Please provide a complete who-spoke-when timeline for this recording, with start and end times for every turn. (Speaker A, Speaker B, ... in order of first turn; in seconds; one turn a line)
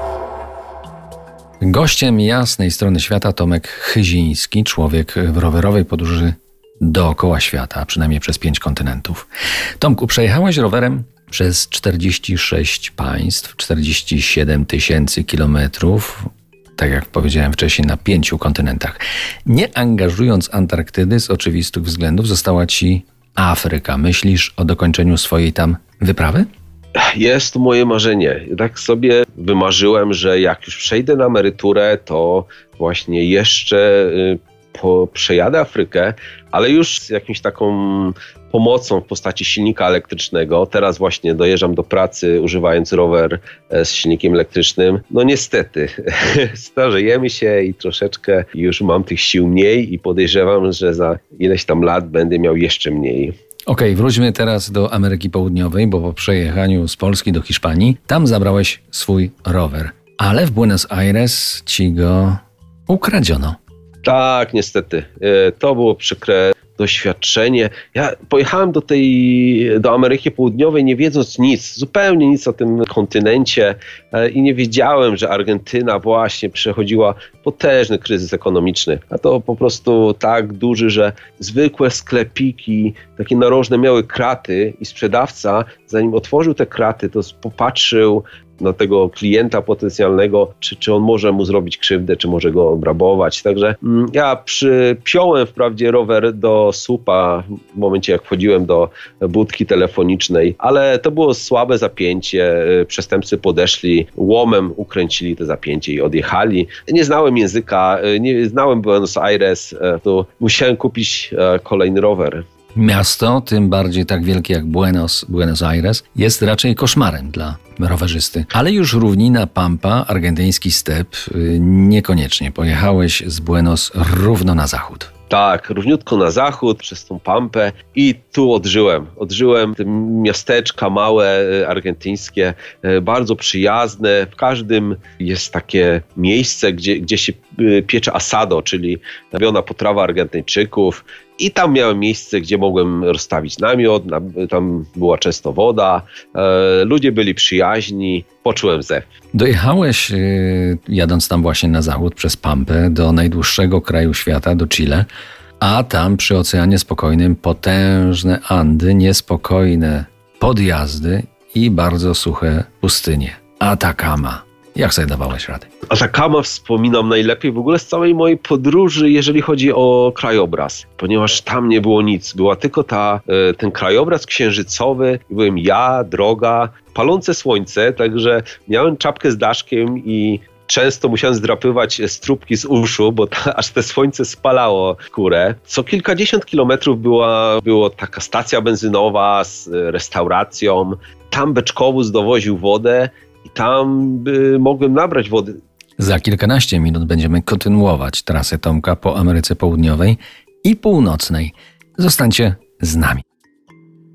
Speaker A: 1.6-9.3
Speaker A: 9.8-26.5
Speaker B: 27.0-53.3
Speaker A: 53.7-63.6
Speaker B: 64.0-112.4
Speaker A: 112.7-125.1
Speaker B: 125.3-149.1
Speaker A: 149.3-155.1
Speaker A: 155.6-165.7
Speaker B: 165.9-195.6
Speaker A: 196.0-203.2